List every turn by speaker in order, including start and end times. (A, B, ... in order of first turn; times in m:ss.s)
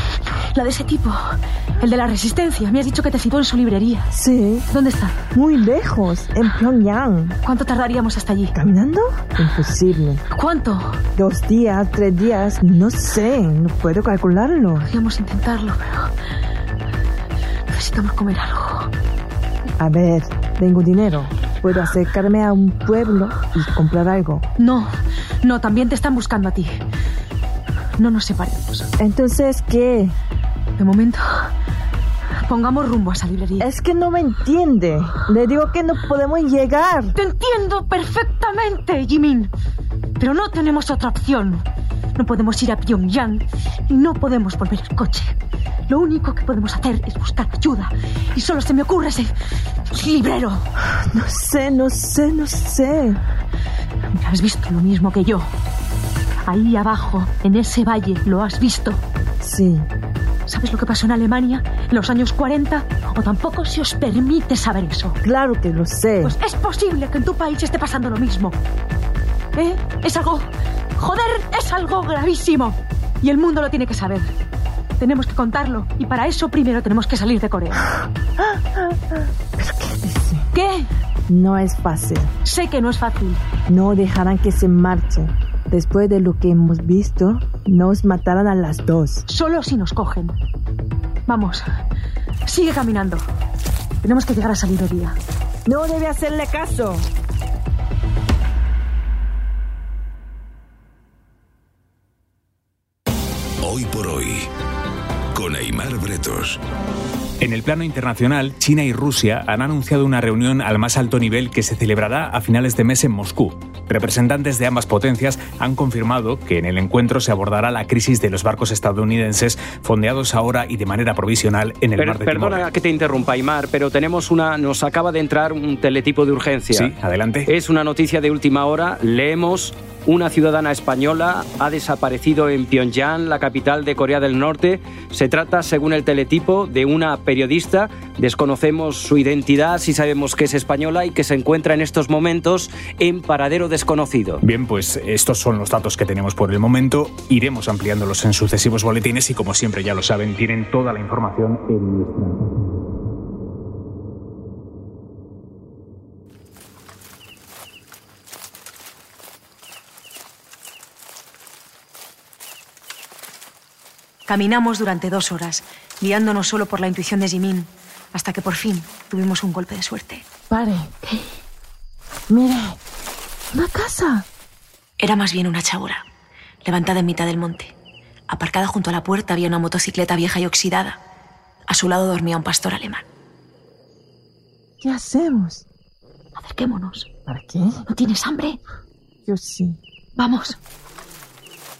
0:00.6-0:01.1 A
0:01.8-0:04.0 A
0:04.1-0:04.7 B
0:04.8-0:05.1 A
0:05.3-0:07.4 B
0:07.5-0:08.5 A
0:08.5-0:10.2 B
0:10.4-0:10.7 A
0:11.1-0:14.9 B
0:14.9-0:15.8 A
0:17.8-0:18.5 A
0:19.8-0:24.5 B
0:25.4-0:26.6 A
0:28.0-0:28.6 A
0:29.0-0:30.2 B
0:30.8-0:31.2 A
0:32.5-0:33.6 A
0:33.6-0:37.2 B
0:37.2-0:39.4 A
0:40.2-0:41.6 A
0:42.2-0:45.2 A
0:45.9-0:49.3 A
0:50.0-0:50.6 A
0:50.8-0:53.2 B
0:54.2-0:55.4 A
0:56.5-0:59.0 A
0:59.4-0:59.9 B
1:00.5-1:05.1 A
1:05.2-1:06.4 B
1:06.2-1:08.5 A
1:09.6-1:10.4 A
1:11.0-1:14.2 A
1:15.0-1:17.7 A
1:18.5-1:19.0 B
1:19.6-1:20.5 B
1:21.3-1:22.3 B
1:22.5-1:23.4 A
1:23.6-1:29.2 B
1:29.3-1:30.3 A
1:32.5-1:33.1 A
1:34.0-1:35.1 A
1:35.6-1:37.1 B
1:43.6-1:44.5 C
1:45.3-1:46.6 C
1:47.4-2:02.7 D
2:02.0-2:06.9 E
2:06.7-2:07.5 D
2:07.5-2:24.4 E
2:24.4-2:32.8 D
2:44.3-2:50.2 A
2:50.5-2:51.0 B
2:52.3-2:52.8 B
2:53.5-2:54.3 B
2:55.0-2:56.0 A
2:56.6-2:57.7 A
2:58.3-3:01.0 A
3:01.7-3:03.0 A
3:04.8-3:05.6 B
3:06.3-3:07.1 A
3:07.2-3:07.9 B
3:07.9-3:08.6 A
3:09.2-3:09.8 B
3:10.2-3:10.6 A